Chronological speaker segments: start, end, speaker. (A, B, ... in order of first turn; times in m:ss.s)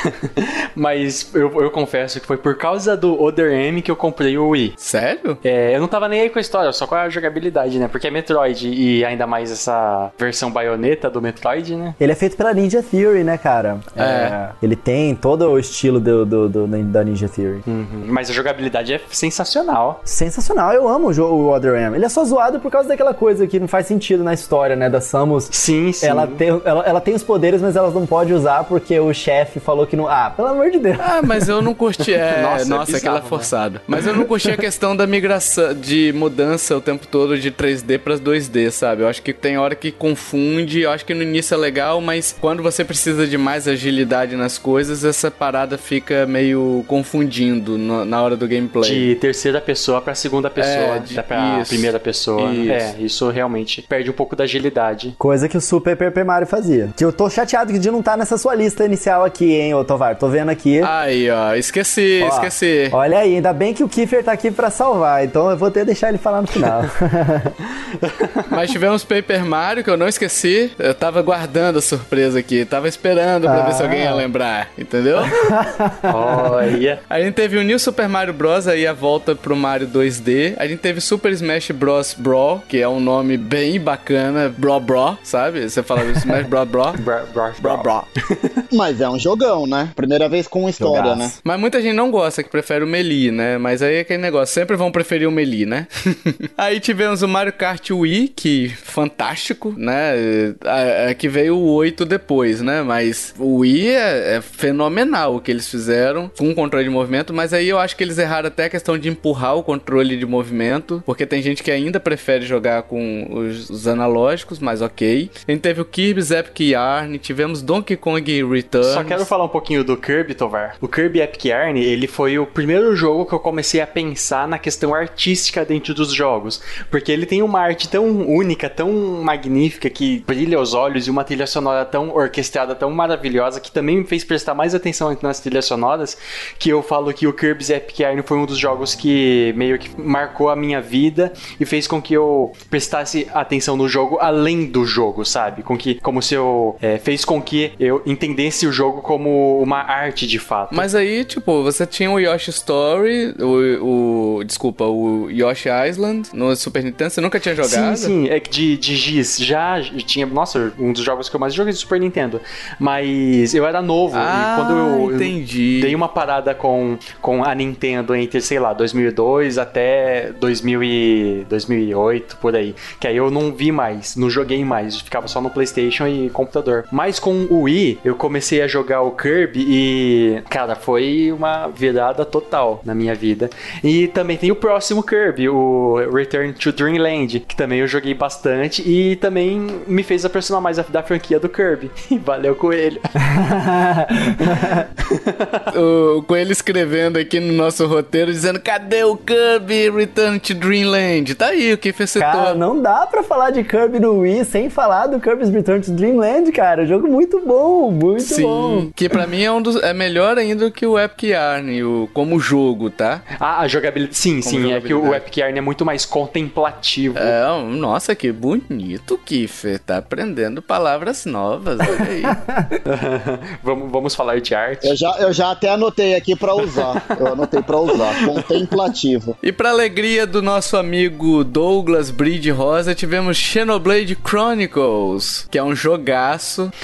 0:00.2-0:04.7 A
0:04.8-0:05.4 B
0:05.4-0:12.0 A
0:12.0-0:17.6 C
0:14.0-0:14.4 B
0:17.7-0:20.0 A
0:20.0-0:31.1 C
0:25.5-0:26.4 A
0:31.0-0:49.1 B
0:32.2-0:33.5 A
0:48.8-0:55.2 A
0:50.6-0:52.9 B
0:55.2-1:00.9 C
1:00.8-1:03.0 B
1:02.2-1:07.5 C
1:07.9-1:08.5 A
1:08.5-1:15.4 B
1:13.4-1:14.2 C
1:15.3-1:16.5 C
1:16.1-1:17.0 A
1:17.1-1:27.0 B
1:27.0-1:28.6 A
1:27.6-1:28.0 D
1:28.7-1:31.3 D
1:30.8-1:31.4 C
1:31.4-1:59.3 B
1:58.8-2:30.9 A
2:30.7-2:38.1 B
2:37.6-3:13.2 A
2:44.1-2:46.0 B
3:13.2-3:14.9 C
3:14.4-3:15.6 A
3:15.7-3:22.6 B
3:22.2-3:28.9 C
3:28.2-3:33.2 B
3:33.4-3:37.3 A
3:34.4-3:35.2 B
3:37.2-3:42.4 B
3:42.0-3:42.8 C
3:42.8-3:45.0 A
3:44.8-3:49.4 D
3:48.1-3:48.3 A
3:49.4-3:56.7 B